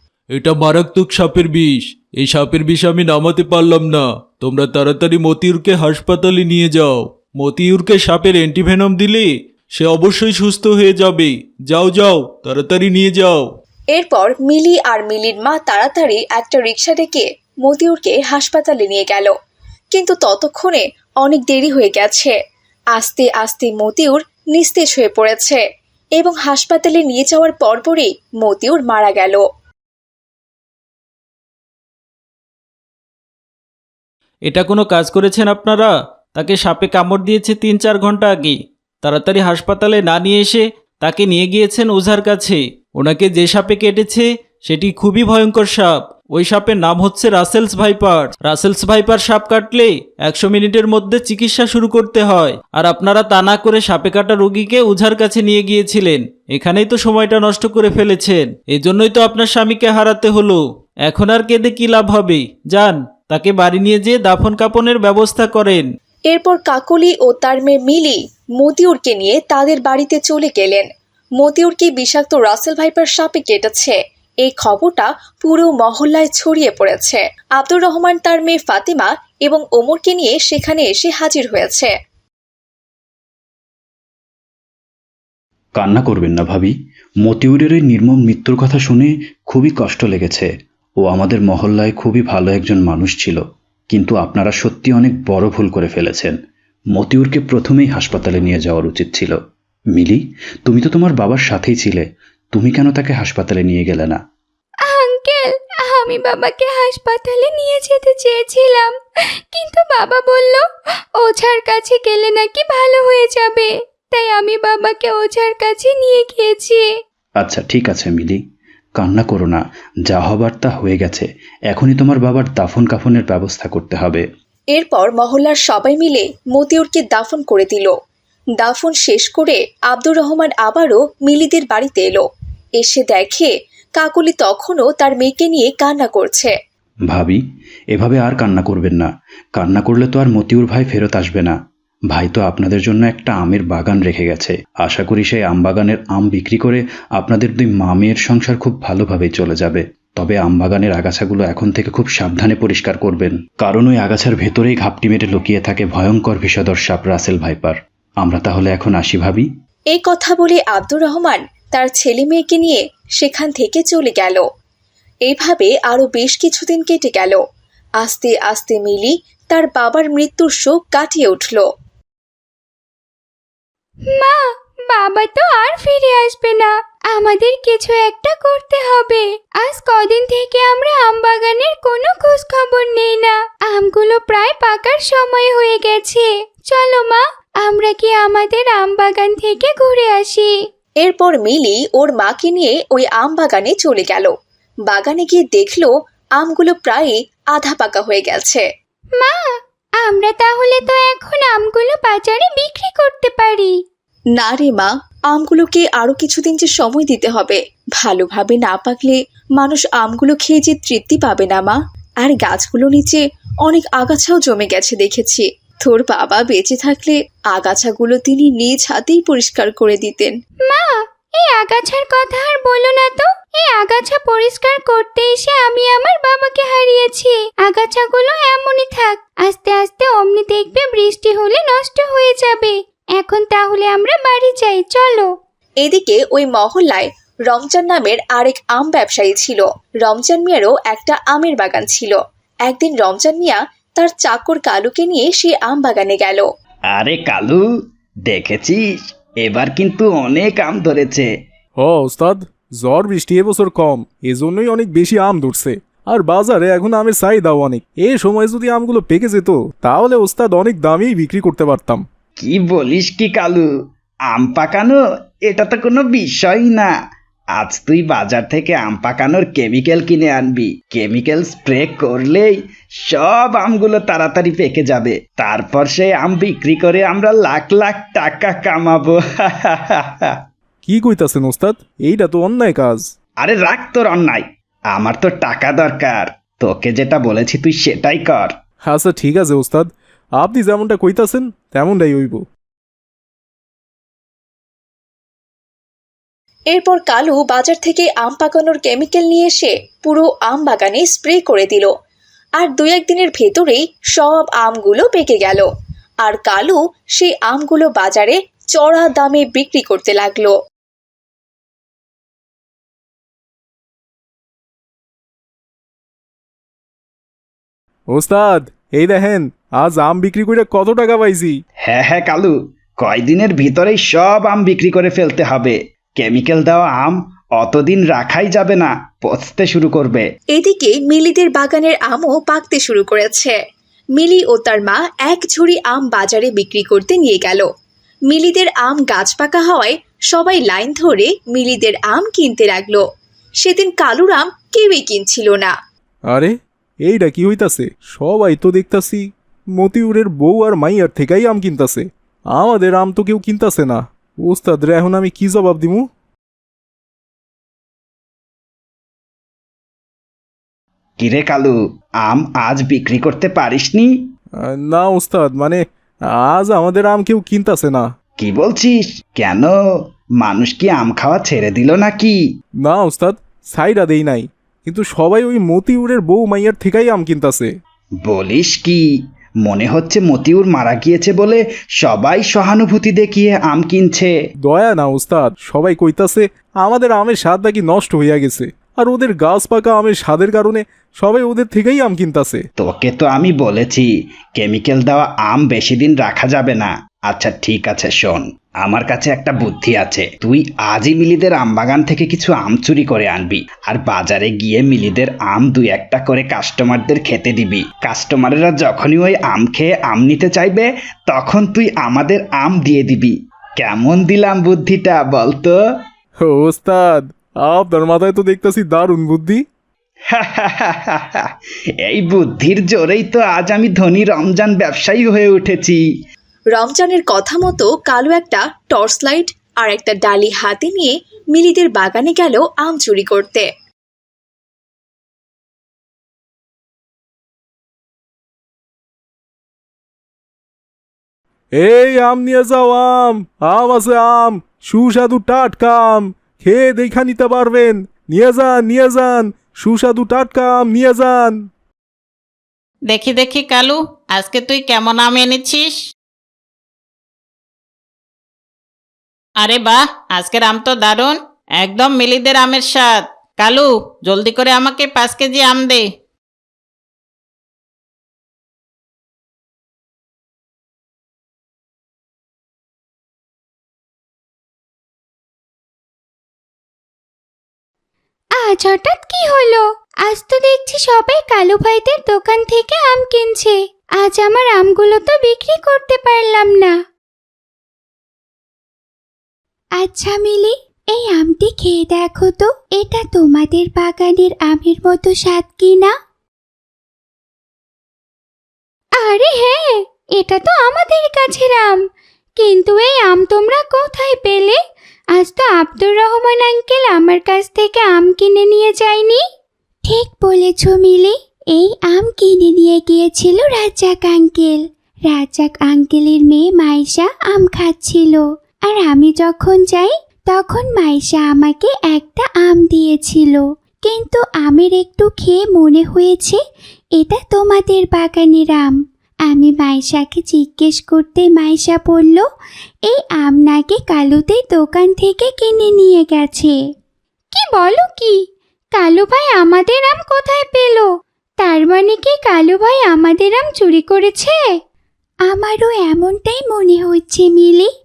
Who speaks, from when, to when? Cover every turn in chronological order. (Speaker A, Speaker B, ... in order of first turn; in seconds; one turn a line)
Speaker A: 0.3-13.5
Speaker B: 13.9-19.3
Speaker B: 19.9-22.4
Speaker B: 22.9-25.6
Speaker B: 26.2-29.4
Speaker A: 34.5-65.9
Speaker B: 66.3-70.9
Speaker B: 71.4-81.9
Speaker C: 85.8-90.5
Speaker C: 91.0-96.4
Speaker C: 96.9-99.4
Speaker C: 100.0-104.2
Speaker D: 104.9-109.0
Speaker D: 109.5-110.7
Speaker D: 111.2-116.8
Speaker C: 117.4-118.4
Speaker C: 119.0-124.2
Speaker B: 124.8-127.9
Speaker B: 128.6-132.3
Speaker B: 132.8-136.5
Speaker C: 137.1-137.4
Speaker C: 137.9-141.6
Speaker C: 142.1-159.5
Speaker B: 159.9-164.4
Speaker B: 165.3-167.4
Speaker B: 168.0-171.7
Speaker D: 174.1-190.5
Speaker B: 191.0-194.3
Speaker B: 194.9-198.6
Speaker D: 199.2-199.4
Speaker D: 200.0-203.8
Speaker B: 204.4-220.3
Speaker D: 220.7-235.3
Speaker B: 235.8-246.5
Speaker E: 246.9-247.6
Speaker E: 248.3-248.8
Speaker E: 249.4-251.3
Speaker F: 251.8-262.0
Speaker E: 262.4-263.6
Speaker E: 264.3-266.9
Speaker E: 267.6-280.4
Speaker F: 280.9-283.1
Speaker E: 283.4-288.5
Speaker F: 288.9-292.4
Speaker B: 296.7-301.9
Speaker B: 302.6-305.7
Speaker B: 306.2-310.6
Speaker F: 318.1-321.6
Speaker E: 321.9-330.3
Speaker B: 330.5-333.6
Speaker B: 334.2-337.7
Speaker B: 338.3-343.0
Speaker B: 343.6-345.7
Speaker F: 346.3-356.1
Speaker E: 361.2-364.1
Speaker F: 364.6-368.1
Speaker E: 368.4-369.7
Speaker E: 370.4-372.4
Speaker F: 372.9-377.7
Speaker E: 378.3-379.0
Speaker E: 379.6-384.3
Speaker F: 384.6-392.6
Speaker E: 392.8-415.8
Speaker F: 416.4-419.6
Speaker E: 420.3-421.5
Speaker E: 422.1-426.0
Speaker B: 426.8-433.7
Speaker F: 441.8-451.7
Speaker G: 453.1-456.1
Speaker G: 459.6-466.1
Speaker D: 478.6-486.9
Speaker D: 490.0-496.1
Speaker D: 499.2-502.0
Speaker D: 502.6-504.8
Speaker D: 505.4-509.4
Speaker D: 510.1-526.6
Speaker D: 527.2-529.0
Speaker D: 529.5-532.5
Speaker D: 533.1-536.8
Speaker D: 537.5-538.4
Speaker D: 539.0-541.1
Speaker D: 541.6-544.6
Speaker D: 545.5-547.9